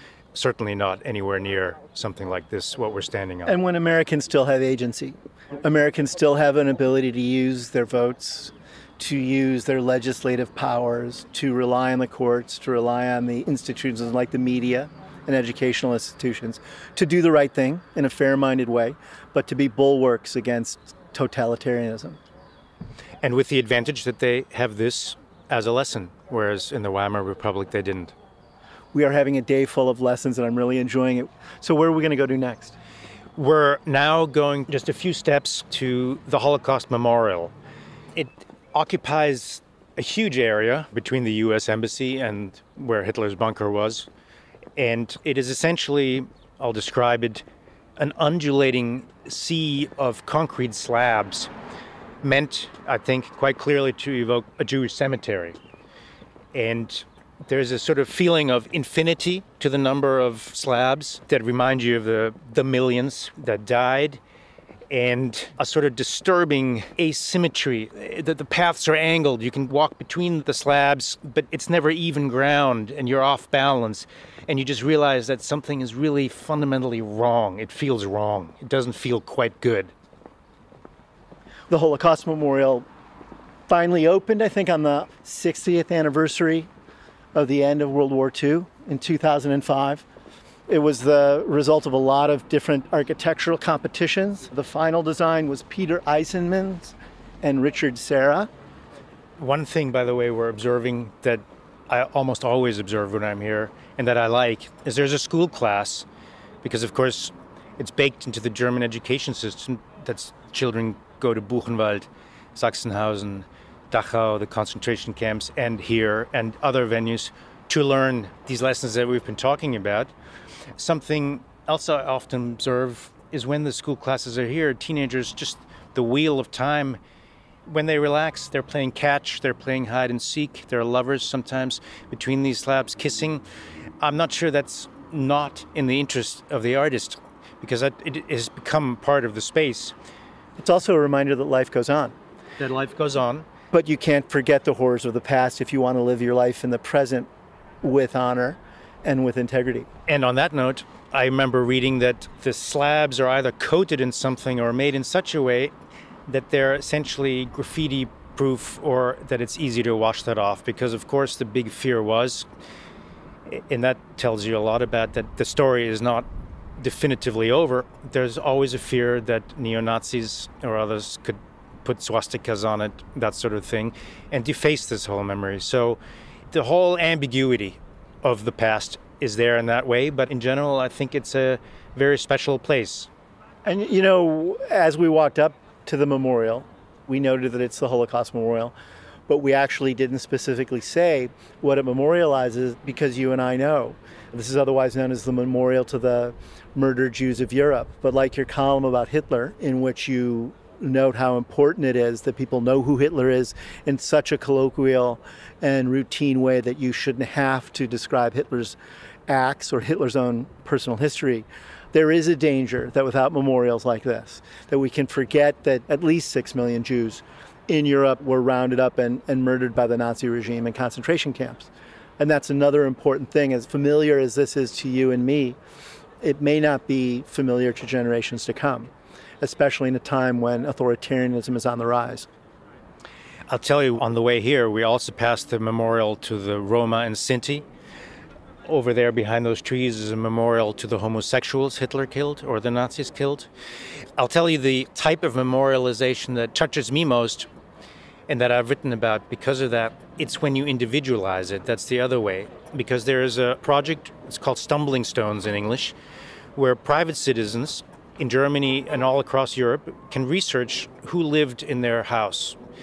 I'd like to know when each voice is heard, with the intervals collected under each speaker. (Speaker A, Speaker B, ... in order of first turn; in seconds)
Speaker A: 0.3-3.6, 23.2-28.1, 33.3-37.5, 38.1-44.1, 44.8-47.4, 48.0-51.5, 52.2-55.6, 56.5-64.2, 64.9-79.9, 99.4-106.0, 106.6-120.1, 120.8-127.0, 127.7-133.4, 134.0-139.9, 142.6-143.5, 150.1-155.7, 156.3-162.5, 163.5-176.0, 176.5-183.1, 233.5-237.7, 238.7-243.5, 244.2-247.5, 248.3-255.9, 256.5-262.6
Speaker B: 3.5-22.2, 28.9-32.8, 81.7-82.8, 83.7-86.7, 87.3-90.0, 90.7-98.5, 140.6-142.1, 143.7-147.3, 147.8-149.9, 183.6-188.7, 189.3-208.8, 209.3-225.6, 226.2-232.3